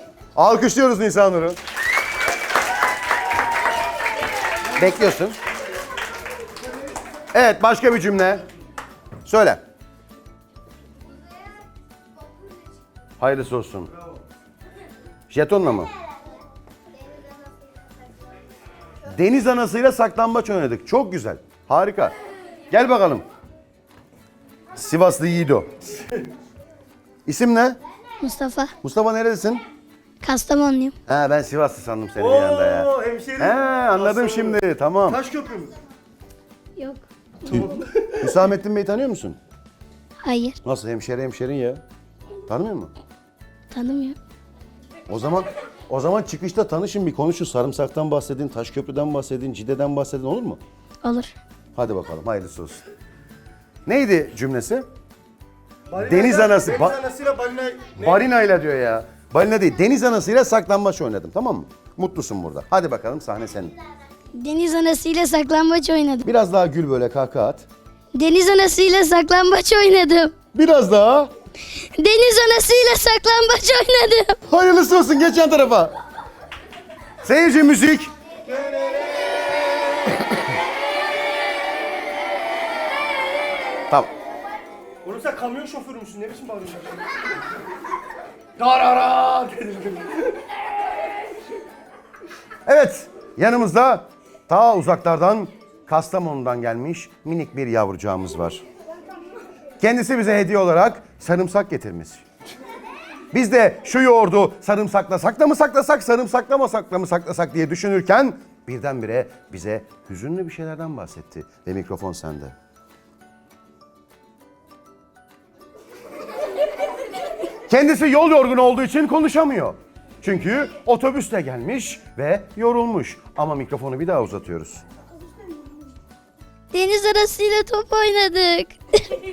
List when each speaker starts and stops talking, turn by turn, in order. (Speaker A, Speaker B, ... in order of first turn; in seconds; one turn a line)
Speaker A: 0.3-1.6
Speaker A: 4.7-5.4
Speaker A: 7.3-8.4
Speaker A: 9.2-9.6
Speaker A: 13.2-13.9
Speaker A: 15.3-15.9
Speaker A: 19.1-22.1
Speaker A: 22.7-23.2
Speaker A: 24.8-25.7
Speaker A: 27.2-27.8
Speaker B: 28.2-28.7
Speaker A: 28.8-29.6
Speaker B: 30.2-30.9
Speaker A: 31.1-35.2
Speaker C: 32.2-35.7
Speaker B: 36.8-37.0
Speaker C: 37.5-38.2
Speaker A: 38.2-39.4
Speaker B: 40.2-40.6
Speaker A: 40.6-41.8
Speaker A: 42.5-42.9
Speaker B: 43.7-44.2
Speaker A: 45.1-50.6
Speaker B: 51.0-51.3
Speaker A: 51.7-52.8
Speaker A: 53.9-54.9
Speaker C: 55.9-58.2
Speaker A: 56.0-57.0
Speaker A: 58.0-63.7
Speaker B: 64.3-66.2
Speaker A: 66.2-67.7
Speaker B: 68.1-70.3
Speaker A: 70.5-71.3
Speaker B: 72.0-74.3
Speaker A: 74.5-75.9
Speaker A: 77.2-78.1
Speaker C: 78.5-80.2
Speaker C: 85.0-87.0
Speaker C: 88.6-90.3
Speaker A: 92.7-98.6
Speaker A: 99.8-102.2
Speaker A: 103.3-112.5
Speaker A: 117.7-124.8
Speaker B: 126.7-128.7